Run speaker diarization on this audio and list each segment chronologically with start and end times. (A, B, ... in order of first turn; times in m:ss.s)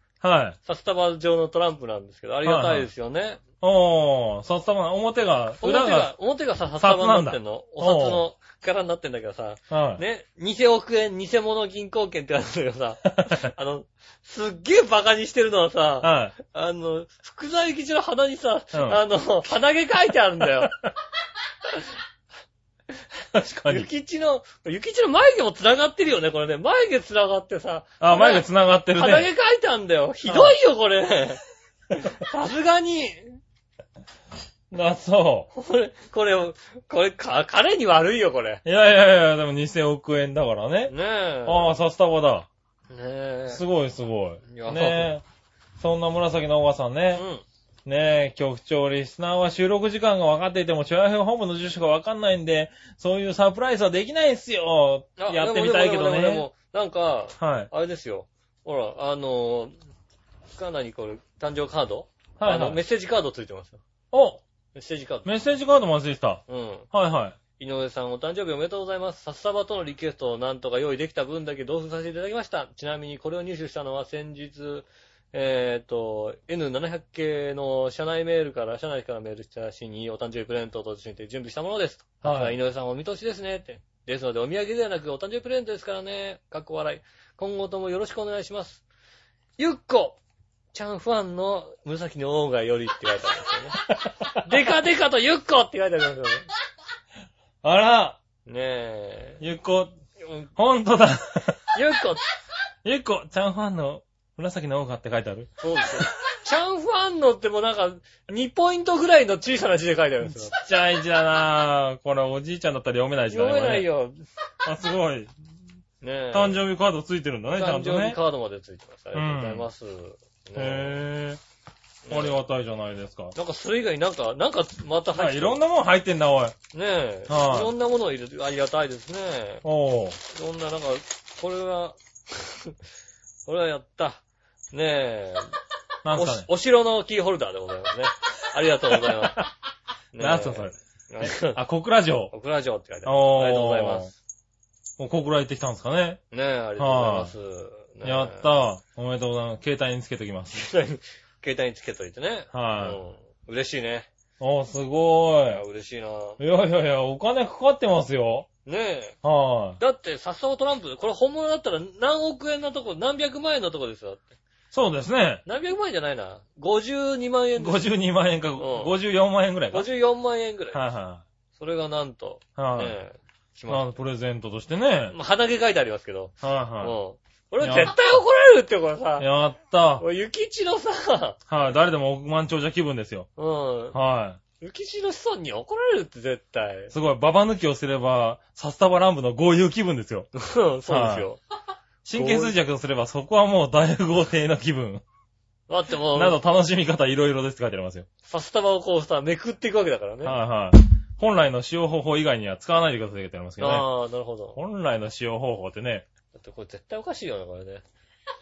0:00.2-0:00.6 A
0:00.6-0:03.4 B
0:02.4-0:02.9 A
0:03.6-0:06.1 A
0:05.6-0:20.8 B
0:06.8-0:08.2 A
0:09.7-0:10.0 A
0:16.0-0:16.3 A
0:18.7-0:19.0 A
0:23.3-0:23.9 A
0:23.6-0:33.4 B
0:28.0-0:29.3 A
0:30.3-0:30.6 A
0:34.7-0:35.5 A
0:35.5-0:38.6 B
0:38.6-0:40.9 A
0:40.9-0:41.8 B
0:41.4-0:42.5 A
0:42.9-0:43.6 B
0:43.5-0:45.2 A
0:44.5-0:45.1 B
0:45.8-0:47.2 A
0:47.1-0:47.4 B
0:47.9-0:56.5 A
0:55.2-0:59.7 B
0:57.4-0:57.7 A
1:00.5-1:03.8 B
1:02.4-1:02.8 A
1:04.1-1:04.4 A
1:04.8-1:05.3 B
1:05.2-1:07.4 A
1:06.5-1:06.9 B
1:07.6-1:28.8 B
1:22.2-1:22.6 A
1:29.6-1:30.2 B
1:30.7-1:33.8 B
1:33.9-1:34.5 A
1:34.4-1:36.5 B
1:37.6-1:38.2 A
1:38.4-1:39.4 B
1:39.4-1:39.9 A
1:40.2-1:40.5 B
1:40.6-1:41.6 A
1:41.7-1:42.2 B
1:42.8-1:46.1 A
1:45.6-1:50.6 B
1:50.2-1:53.9 A
1:53.3-1:54.2 B
1:54.6-1:55.3 A
1:56.0-1:56.6 B
1:56.3-1:58.2 A
1:57.5-2:01.0 B
1:59.1-1:59.7 A
2:00.6-2:01.4 A
2:02.0-2:02.4 B
2:02.1-2:03.4 A
2:03.4-2:05.6 B
2:05.1-2:06.6 A
2:06.7-2:09.6 B
2:07.3-2:07.7 A
2:09.6-2:10.2 A
2:10.3-2:12.8 B
2:13.5-2:15.6 B
2:16.0-2:16.5 A
2:16.1-2:19.5 B
2:20.1-2:21.6 B
2:20.2-2:22.3 A
2:22.3-2:24.1 B
2:23.0-2:24.1 A
2:25.0-2:26.2 A
2:26.3-2:28.5 B
2:26.8-2:27.3 A
2:28.0-2:30.7 A
2:30.5-2:34.1 B
2:32.5-2:33.0 A
2:34.4-2:35.6 A
2:35.5-2:36.4 B
2:36.4-2:38.5 A
2:38.6-2:39.2 B
2:39.2-2:39.8 A
2:39.8-2:44.3 B
2:44.7-2:45.4 A
2:45.4-2:47.9 B
2:47.6-2:49.9 A
2:48.6-2:48.9 B
2:49.7-2:50.8 B
2:50.7-2:51.2 A
2:51.5-2:53.9 B
2:52.6-2:53.0 A
2:53.7-2:55.1 A
2:55.1-2:59.3 B
2:56.4-2:56.9 A
2:57.6-2:58.0 A
2:59.2-3:00.0 A
3:00.0-3:01.4 B
3:01.5-3:03.3 A
3:03.4-3:04.0 B
3:03.9-3:04.4 A
3:04.6-3:06.9 B
3:06.9-3:10.3 A
3:10.4-3:11.4 B
3:10.9-3:11.3 A
3:12.0-3:15.0 A
3:12.1-3:12.6 B
3:15.7-3:16.4 B
3:16.1-3:18.1 A
3:18.3-3:20.4 B
3:20.2-3:23.9 A
3:23.6-3:24.6 B
3:24.6-3:26.1 A
3:26.3-3:27.8 B